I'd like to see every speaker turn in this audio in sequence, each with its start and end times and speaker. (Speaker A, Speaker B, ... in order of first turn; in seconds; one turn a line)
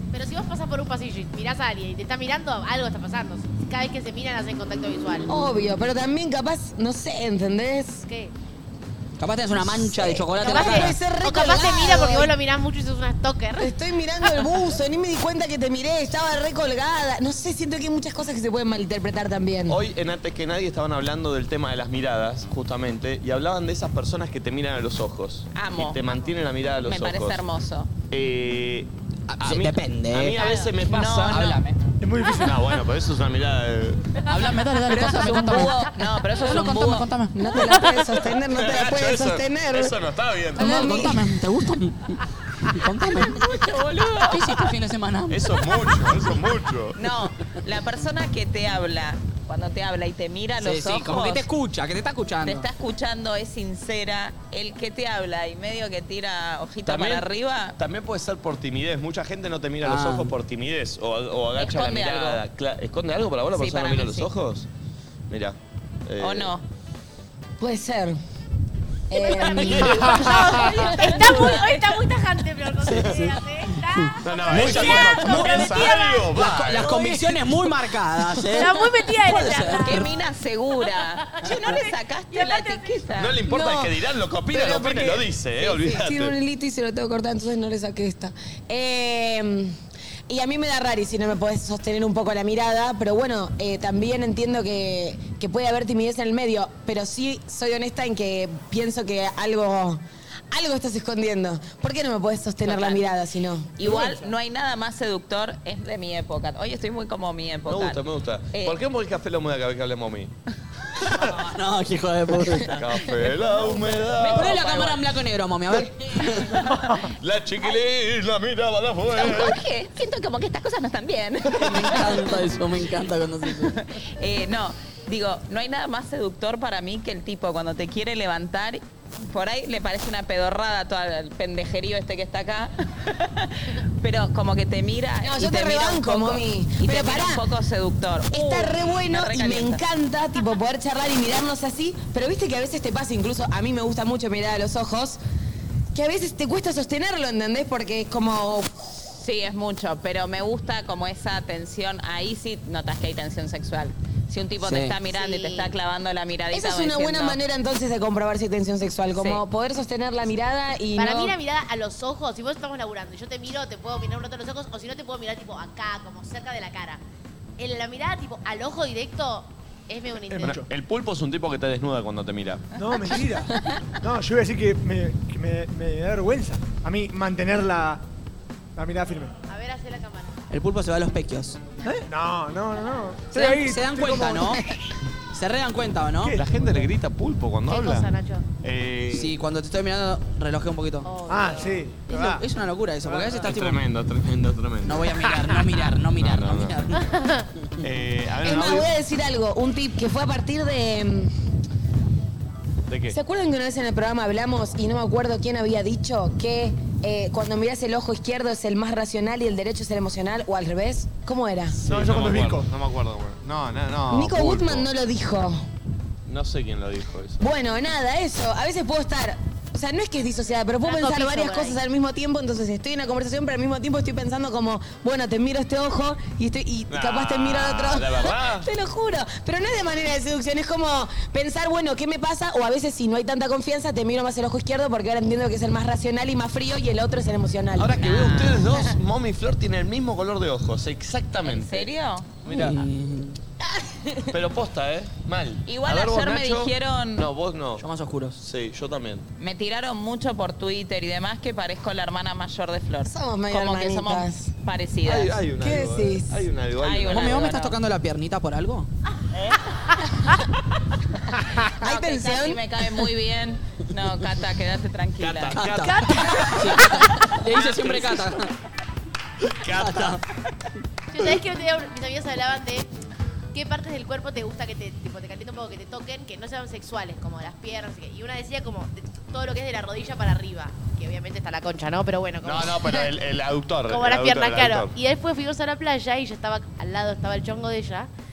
Speaker A: 0.1-5.3
Speaker B: 5.3-8.0
Speaker A: 8.0-8.3
Speaker C: 9.2-11.0
Speaker B: 9.6-12.3
Speaker A: 10.4-13.7
Speaker B: 13.6-19.8
Speaker D: 19.7-27.4
Speaker E: 25.5-26.2
Speaker E: 26.8-27.9
Speaker D: 28.1-28.9
Speaker C: 29.3-30.4
Speaker D: 29.4-31.5
Speaker E: 30.4-31.8
Speaker C: 31.3-31.6
Speaker F: 32.0-32.8
Speaker D: 32.3-34.0
Speaker C: 34.3-37.8
Speaker E: 34.9-37.1
Speaker B: 35.2-35.8
Speaker B: 37.3-40.0
Speaker D: 38.5-41.1
Speaker C: 40.5-43.7
Speaker B: 40.6-41.2
Speaker E: 43.5-44.5
Speaker C: 44.2-46.1
Speaker D: 45.3-47.0
Speaker E: 47.0-51.5
Speaker C: 50.6-52.7
Speaker E: 52.4-57.8
Speaker D: 56.9-57.2
Speaker D: 57.8-64.7
Speaker C: 59.8-60.3
Speaker E: 61.6-62.4
Speaker E: 63.5-64.3
Speaker D: 65.3-66.5
Speaker E: 66.2-66.6
Speaker B: 67.6-68.2
Speaker B: 69.1-71.2
Speaker A: 69.1-76.2
Speaker C: 69.5-71.6
Speaker E: 70.5-71.9
Speaker C: 72.8-80.1
Speaker D: 74.2-77.0
Speaker A: 76.8-77.2
Speaker A: 78.4-80.1
Speaker E: 79.8-83.4
Speaker A: 80.8-83.1
Speaker D: 83.2-86.3
Speaker B: 83.5-84.0
Speaker B: 84.5-89.8
Speaker B: 90.3-103.8
Speaker E: 102.7-103.0
Speaker E: 103.8-108.0
Speaker C: 103.9-104.2
Speaker D: 107.7-110.3
Speaker C: 111.2-113.1
Speaker D: 112.8-114.7
Speaker E: 114.2-115.0
Speaker C: 114.3-116.6
Speaker E: 116.3-116.9
Speaker D: 117.2-119.6
Speaker E: 119.1-122.3
Speaker C: 121.6-123.8
Speaker E: 123.6-139.8
Speaker B: 135.2-137.4
Speaker B: 138.3-145.2
Speaker B: 145.9-148.9
Speaker E: 149.1-157.4
Speaker C: 154.6-155.0
Speaker A: 155.1-155.7
Speaker B: 156.5-161.3
Speaker E: 159.1-159.4
Speaker A: 161.0-167.0
Speaker A: 167.6-170.6
Speaker F: 170.3-170.7
Speaker D: 170.5-172.6
Speaker F: 172.8-178.0
Speaker F: 178.8-179.3
Speaker A: 179.5-180.4
Speaker C: 180.5-181.6
Speaker F: 181.8-184.7
Speaker C: 183.3-184.7
Speaker C: 185.3-186.4
Speaker F: 186.2-186.9
Speaker D: 186.3-189.4
Speaker A: 187.7-188.5
Speaker C: 189.1-191.1
Speaker A: 191.1-191.8
Speaker F: 191.3-192.4
Speaker C: 192.1-193.8
Speaker F: 193.0-193.4
Speaker D: 193.4-195.2
Speaker C: 194.8-197.1
Speaker D: 196.2-196.8
Speaker A: 197.0-197.5
Speaker D: 197.8-198.9
Speaker B: 198.4-201.3
Speaker D: 202.9-203.2
Speaker B: 203.1-211.8
Speaker D: 211.8-214.9
Speaker F: 211.8-212.7
Speaker B: 214.1-215.6
Speaker D: 216.3-217.4
Speaker B: 217.4-238.0
Speaker A: 220.8-221.8
Speaker D: 226.9-228.7
Speaker D: 237.8-241.9
Speaker E: 238.0-238.7
Speaker E: 241.4-242.4
Speaker D: 242.4-242.8
Speaker C: 242.5-243.4
Speaker D: 244.3-247.8
Speaker E: 245.7-247.3
Speaker C: 247.8-248.4
Speaker D: 248.4-249.3
Speaker E: 249.4-255.4
Speaker B: 253.1-254.5
Speaker D: 255.0-257.5
Speaker B: 255.6-256.5
Speaker E: 256.8-257.8
Speaker C: 257.1-258.9
Speaker E: 261.8-265.6
Speaker B: 261.8-262.6
Speaker D: 265.2-266.8
Speaker C: 265.5-268.5
Speaker D: 267.5-268.3
Speaker D: 269.5-270.2
Speaker C: 269.7-270.2
Speaker A: 271.1-272.9
Speaker A: 273.5-283.1
Speaker D: 282.4-284.9
Speaker A: 283.9-288.1